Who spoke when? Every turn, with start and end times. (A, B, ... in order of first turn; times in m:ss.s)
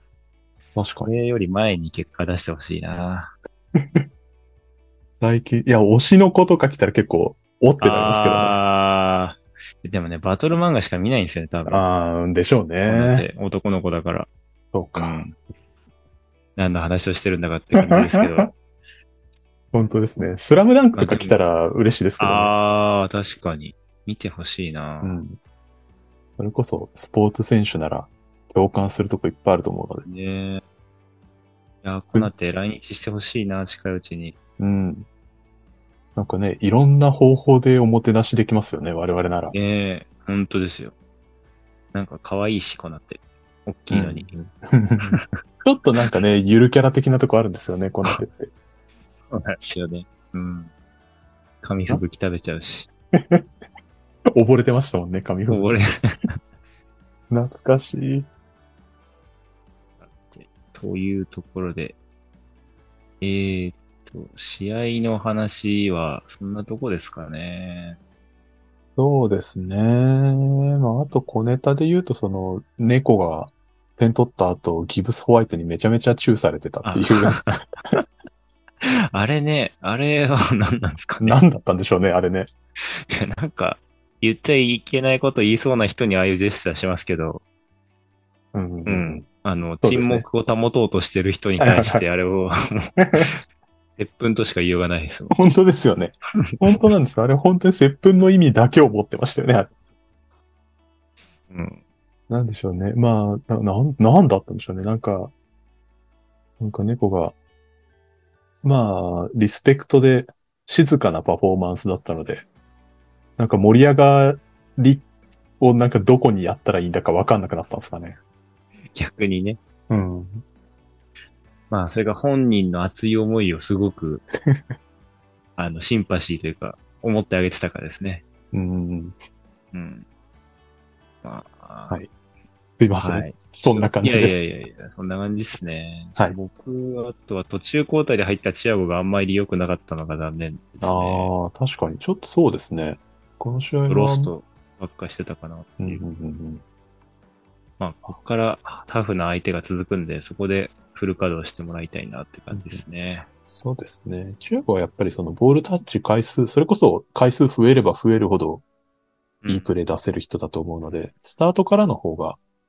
0:00.7-0:01.1 A
0:01.0-0:03.3 B
0:03.8-0:04.0 A
0:05.2-0:08.6 A
0:07.8-0:11.8 B
0:11.7-0:13.2 A
0:12.8-0:14.3 B
0:14.7-0:15.2 A
0:14.9-0:15.3 B
0:16.6-0:18.5 B
0:17.8-0:18.5 A
0:19.7-0:22.5 A
0:20.9-0:21.4 B
0:22.2-0:25.2 B
0:25.0-0:25.4 A
0:26.4-0:30.0 A
0:30.0-0:30.6 B
0:31.8-0:34.4 B
0:34.6-0:35.1 A
0:36.2-0:39.5 A
0:39.5-0:40.9 B
0:41.9-0:44.3 B
0:43.9-0:48.5 A
0:49.3-0:50.7 B
0:51.6-0:52.9 B
0:53.1-0:53.4 A
0:54.3-0:55.7 A
0:55.5-0:56.3 B
0:57.3-0:58.3 A
1:00.0-1:02.0 B
1:03.2-1:08.0 B
1:09.0-1:17.4 A
1:16.8-1:17.7 B
1:18.8-1:21.4 B
1:21.2-1:22.5 A
1:22.8-1:27.4 B
1:28.5-1:29.2 A
1:28.8-1:33.4 B
1:29.8-1:30.2 A
1:31.6-1:32.0 A
1:33.0-1:33.3 A
1:34.0-1:35.4 B
1:35.3-1:39.7 A
1:41.5-1:41.8 B
1:42.3-1:45.3 A
1:46.6-1:47.3 A
1:48.6-1:52.4 A
1:53.4-1:55.0 A
1:55.6-1:58.2 A
1:58.9-1:59.6 B
1:59.9-2:00.4 A
2:01.7-2:04.2 B
2:05.6-2:08.2 B
2:08.5-2:09.2 A
2:09.7-2:10.0 B
2:11.2-2:12.0 B
2:12.8-2:14.4 A
2:13.0-2:21.3 B
2:20.8-2:24.3 A
2:23.9-2:26.0 B
2:25.8-2:26.6 A
2:27.8-2:33.3 B
2:32.5-2:32.8 A
2:33.5-2:38.6 A
2:39.4-2:39.7 B
2:39.5-2:42.4 A